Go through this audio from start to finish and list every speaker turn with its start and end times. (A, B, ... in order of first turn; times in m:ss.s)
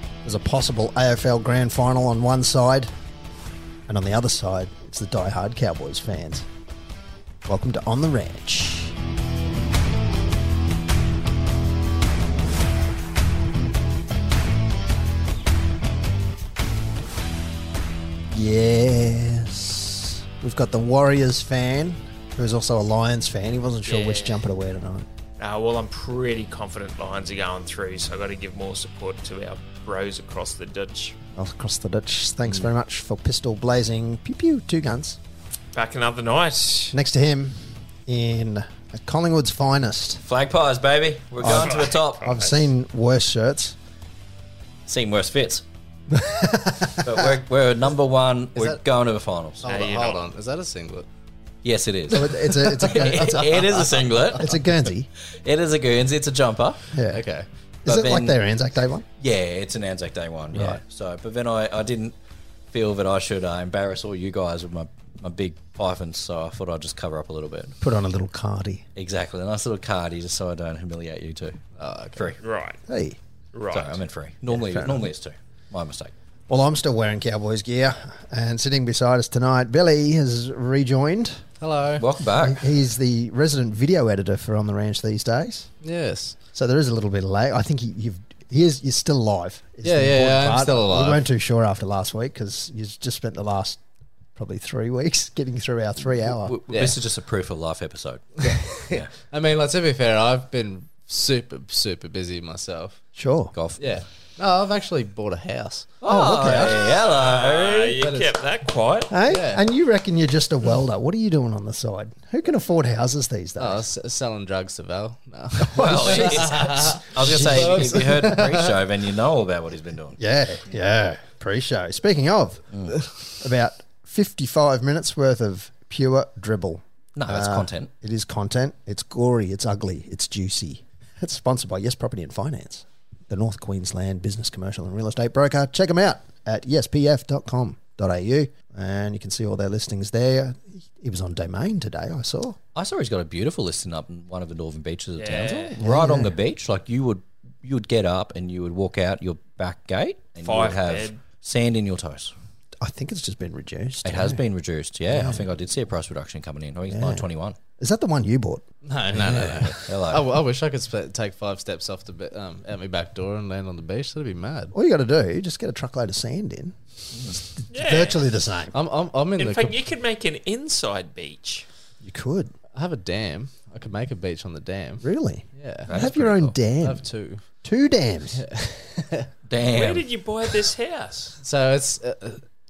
0:00.2-0:02.9 A
0:03.9-0:06.5 A
0:07.4-0:09.0 A
0:18.3-0:25.1 A
0:23.8-0:24.4 B
0:25.4-0:31.2 B
0:31.3-0:35.2 A
0:35.7-0:37.0 B
0:36.9-0:40.2 A
0:40.2-0:42.4 C
0:41.4-0:43.8 A
0:41.4-0:42.6 B
0:44.9-0:45.6 C
0:46.1-0:47.4 A
0:47.0-0:49.6 C
0:48.5-0:48.8 D
0:49.6-0:51.1 D
0:49.6-0:50.2 B
0:51.6-0:54.8 C
0:52.1-0:53.6 A
0:52.7-0:54.2 D
0:54.3-0:55.1 A
0:55.3-0:56.9 C
0:56.9-0:57.2 A
0:57.1-0:57.4 D
0:57.8-0:58.4 C
0:57.8-0:59.0 A
0:59.2-1:02.1 C
1:00.5-1:00.8 A
1:02.7-1:07.8 C
1:07.8-1:08.8 A
1:08.9-1:11.6 C
1:11.8-1:12.3 D
1:12.4-1:12.8 B
1:12.9-1:13.2 A
1:13.5-1:14.0 B
1:13.7-1:16.1 C
1:14.5-1:15.1 A
1:16.5-1:21.4 A
1:21.6-1:22.0 D
1:22.0-1:22.7 C
1:22.4-1:25.7 A
1:25.8-1:26.4 D
1:26.5-1:33.8 A
1:29.8-1:31.2 D
1:34.4-1:36.9 A
1:36.3-1:39.1 C
1:36.7-1:37.0 D
1:38.4-1:43.0 D
1:43.1-1:43.5 A
1:43.5-1:43.9 C
1:43.8-1:45.9 D
1:46.0-1:48.0 C
1:46.1-1:46.9 A
1:46.8-1:49.2 B
1:48.0-1:48.3 D
1:49.1-1:53.8 A
1:49.3-1:49.6 D
1:53.6-1:58.7 D
1:55.6-1:58.1 A
1:55.8-2:00.2 C
2:00.2-2:02.8 A
2:02.7-2:03.0 C
2:02.9-2:03.2 D
2:03.4-2:22.6 A
2:07.1-2:07.9 C
2:22.7-2:32.3 C
2:25.2-2:25.8 B
2:25.8-2:26.4 A
2:30.4-2:31.2 B
2:32.8-2:34.4 A
2:34.0-2:37.6 C
2:35.1-2:35.4 A
2:36.9-2:37.2 A
2:37.8-2:38.6 A
2:38.8-2:44.7 D
2:39.2-2:40.3 C
2:44.7-2:48.7 A
2:47.7-2:48.3 B
2:48.7-2:49.8 D
2:49.4-2:51.7 B
2:52.0-2:52.5 A
2:52.7-2:55.9 D
2:55.0-2:57.1 A
2:55.9-2:56.5 C
2:56.8-2:57.4 D
2:57.6-2:58.4 A
2:58.3-2:59.3 D
2:59.5-3:00.1 C
2:59.7-3:01.4 B
3:01.4-3:02.4 D